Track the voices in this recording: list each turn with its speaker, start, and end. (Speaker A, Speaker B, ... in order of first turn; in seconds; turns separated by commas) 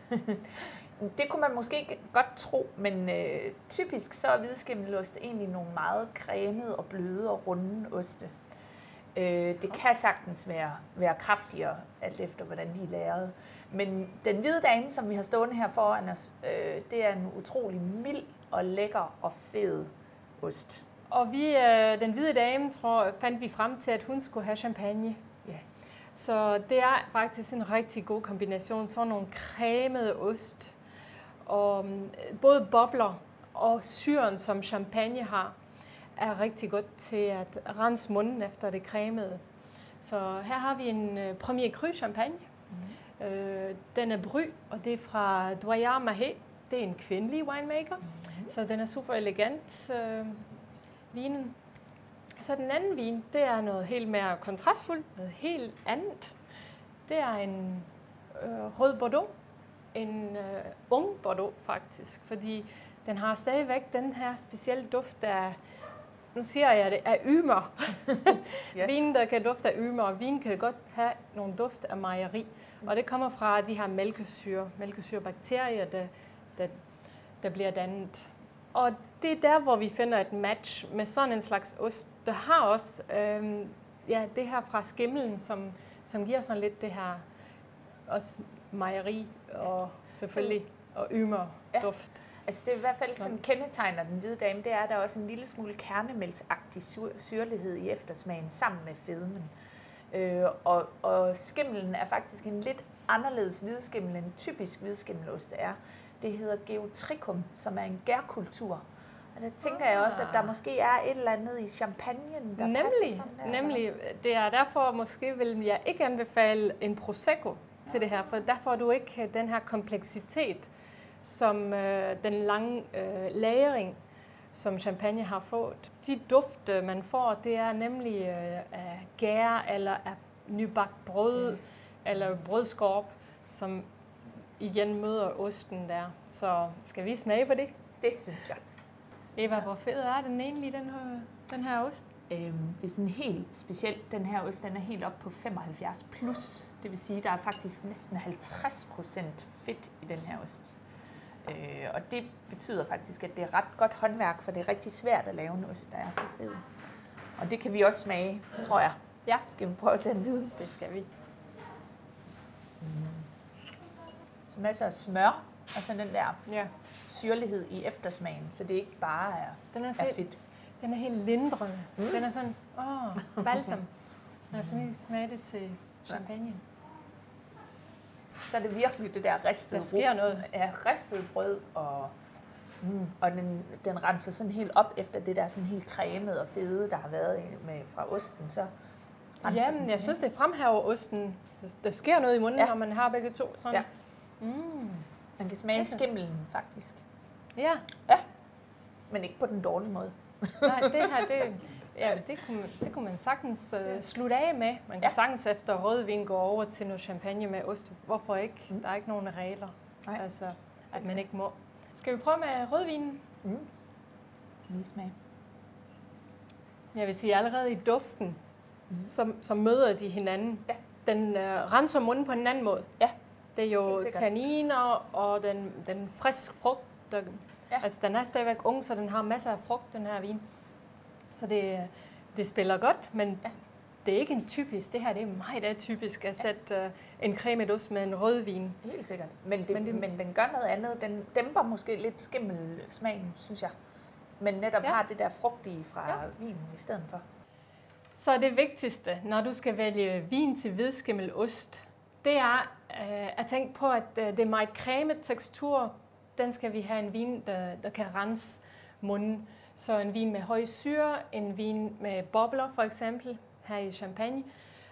Speaker A: 0.1-0.4, Speaker A: 1.0-8.3, Speaker A: 9.1-19.9, Speaker A: 20.4-20.8, Speaker B: 21.1-25.2, Speaker B: 26.1-30.8, Speaker B: 31.4-35.5, Speaker B: 36.1-39.4, Speaker B: 40.0-42.4, Speaker A: 42.7-43.0, Speaker B: 43.2-50.5, Speaker A: 48.2-48.5, Speaker B: 51.1-51.5, Speaker B: 52.4-56.3, Speaker B: 57.1-59.3, Speaker B: 59.9-65.6, Speaker B: 66.3-76.8, Speaker B: 77.4-87.2, Speaker B: 88.1-92.2, Speaker A: 90.3-90.6, Speaker A: 92.4-99.5, Speaker A: 100.1-108.8, Speaker A: 109.3-113.8, Speaker B: 109.7-110.5, Speaker B: 112.6-120.7, Speaker B: 121.2-124.0, Speaker B: 124.5-137.7, Speaker A: 138.0-138.6, Speaker B: 139.3-142.1, Speaker A: 142.3-150.8, Speaker A: 151.4-156.6, Speaker A: 157.4-158.9, Speaker A: 159.5-160.6, Speaker B: 160.6-161.1, Speaker A: 162.8-163.2, Speaker A: 164.5-166.4, Speaker B: 166.4-166.7, Speaker A: 167.1-170.4, Speaker B: 169.7-170.2, Speaker B: 170.8-173.9, Speaker B: 174.5-176.6, Speaker A: 178.5-182.1, Speaker B: 179.7-180.5, Speaker A: 182.8-188.7, Speaker A: 189.4-190.2, Speaker B: 189.4-193.9, Speaker B: 194.4-195.0, Speaker A: 195.4-197.0, Speaker B: 195.7-196.1, Speaker B: 197.6-197.9, Speaker A: 199.1-201.2, Speaker B: 200.6-213.2, Speaker A: 210.9-211.2, Speaker A: 213.4-213.7, Speaker A: 214.7-215.1, Speaker B: 216.9-218.4, Speaker B: 218.9-222.9, Speaker B: 223.5-230.4, Speaker A: 223.9-224.3, Speaker B: 231.3-233.5, Speaker B: 234.0-238.8, Speaker A: 238.8-243.7, Speaker B: 239.7-240.1, Speaker A: 244.4-247.2, Speaker B: 248.2-264.5